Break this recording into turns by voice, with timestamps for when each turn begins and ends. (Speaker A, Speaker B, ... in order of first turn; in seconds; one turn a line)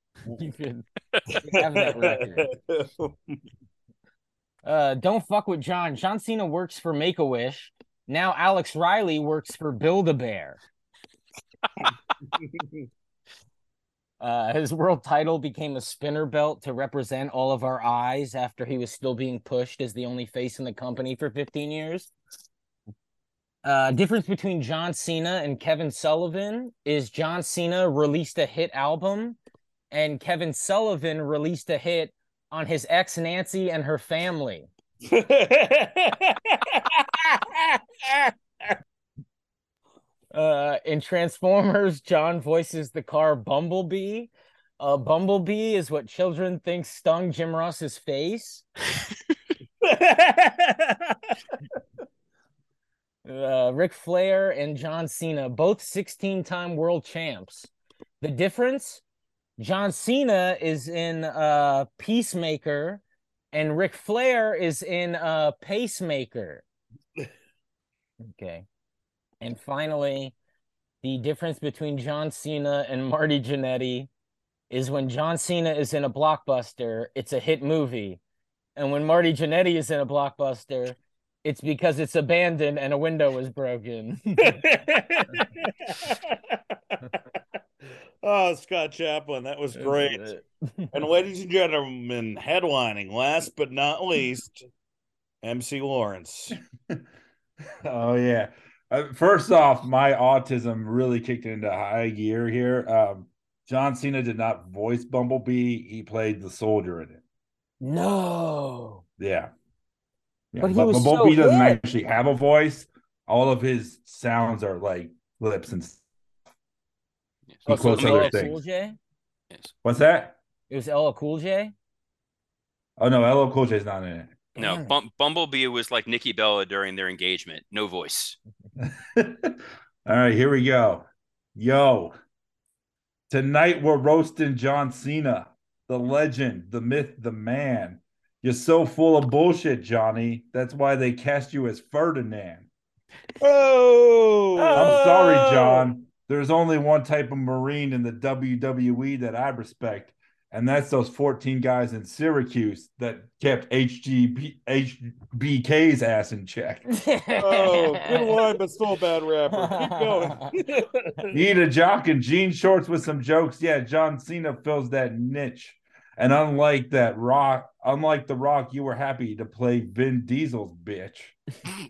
Speaker A: 0.4-0.8
Speaker B: 1.3-3.4
Speaker A: 1.4-2.5
Speaker A: 4.6-10.6
Speaker B: 12.3-12.7
Speaker A: 14.2-22.1
Speaker A: 23.6-29.4
Speaker A: 29.9-34.7
Speaker B: 35.1-38.8
Speaker A: 40.3-48.6
Speaker B: 49.8-51.4
Speaker A: 53.3-57.7
Speaker A: 58.2-59.0
Speaker A: 59.6-66.6
Speaker A: 68.3-68.7
Speaker A: 69.4-70.3
Speaker A: 71.0-74.1
Speaker A: 74.7-78.2
Speaker A: 78.8-84.6
Speaker B: 84.4-87.2
Speaker B: 88.2-90.2
Speaker A: 89.8-90.9
Speaker B: 90.9-94.7
Speaker B: 95.4-96.6
Speaker C: 97.8-107.2
Speaker A: 107.8-109.0
Speaker C: 109.2-109.5
Speaker C: 110.5-116.0
Speaker A: 110.6-111.8
Speaker D: 117.5-118.4
Speaker C: 117.7-118.6
Speaker A: 117.7-119.0
Speaker C: 119.8-120.4
Speaker A: 120.7-121.7
Speaker C: 123.0-124.4
Speaker A: 124.6-124.9
Speaker D: 124.6-128.4
Speaker C: 128.9-132.2
Speaker C: 133.3-142.7
Speaker B: 143.4-145.9
Speaker C: 144.6-156.8
Speaker A: 156.9-158.4
Speaker B: 157.4-161.0
Speaker A: 159.7-160.3
Speaker C: 161.3-171.4